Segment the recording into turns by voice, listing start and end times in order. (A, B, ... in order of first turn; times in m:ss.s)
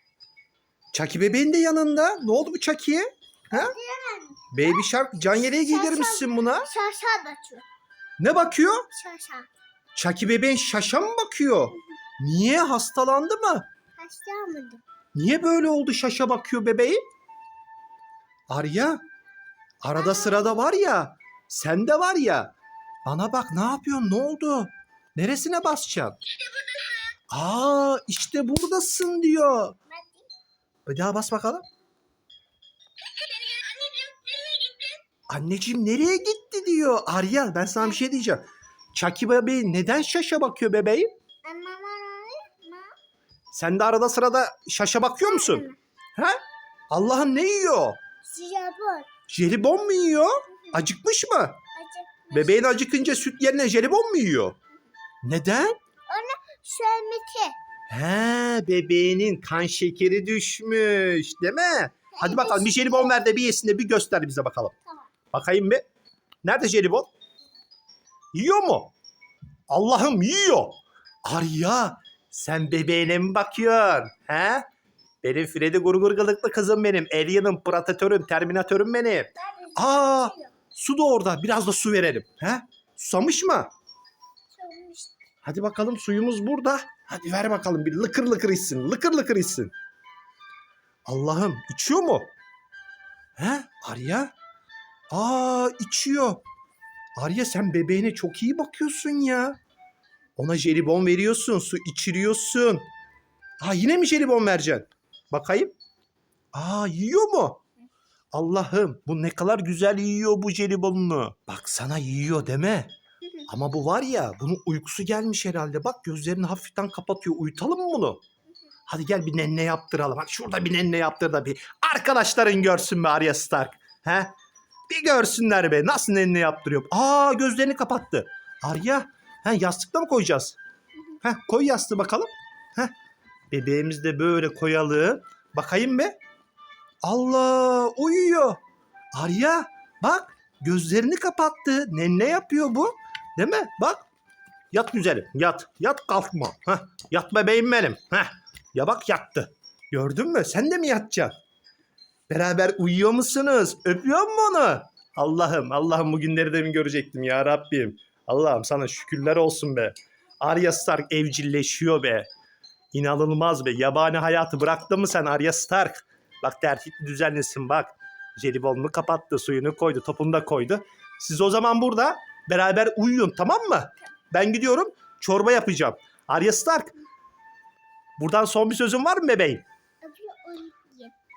0:00.9-0:03.7 A
0:03.5-0:04.8 B
0:04.5-0:06.7 A
0:05.4-0:07.6 B
0:08.2-0:08.9 A
0:08.9-0:09.5 B
0:10.0-0:13.7 A
0:14.0-0:14.8 B
0:15.1-0:17.0 A
0:18.5-0:19.0 A
0:19.8-0:22.5 A
0:20.0-0:20.5 B
0:23.0-0:26.2 A
0:27.3-0:29.8 A
0:29.9-0:30.3 B
0:30.8-0:31.6 A
0:33.2-0:35.0 B
0:35.3-0:41.1 A
0:41.4-0:42.9 B
0:43.5-0:48.0 A
0:45.3-0:45.8 B
0:48.2-0:49.1 B
0:49.3-0:51.6 A
0:51.7-0:52.7 B
0:52.3-0:54.6 A
0:55.2-0:55.8 A
0:56.1-0:57.6 B
0:57.9-1:04.8 A
1:02.1-1:03.1 B
1:05.3-1:05.9 A
1:06.4-1:07.1 A
1:08.3-1:08.9 A
1:09.7-1:14.6 A
1:15.2-1:23.7 A
1:19.4-1:20.5 B
1:24.5-1:25.1 B
1:25.4-1:29.7 A
1:31.1-1:32.3 A
1:33.4-1:34.3 A
1:35.1-1:36.4 A
1:37.2-1:39.6 A
1:40.4-1:42.9 A
1:43.6-1:45.7 A
1:46.5-1:47.6 A
1:48.3-1:52.9 A
1:53.4-1:58.2 A
1:58.9-2:04.3 A
2:04.9-2:10.6 A
2:11.2-2:12.9 A
2:13.5-2:16.2 A
2:17.0-2:18.6 A
2:19.2-2:24.1 A
2:24.7-2:31.4 A
2:32.3-2:42.3 A
2:42.9-2:56.9 A
2:58.2-2:59.6 A
3:00.0-3:01.1 B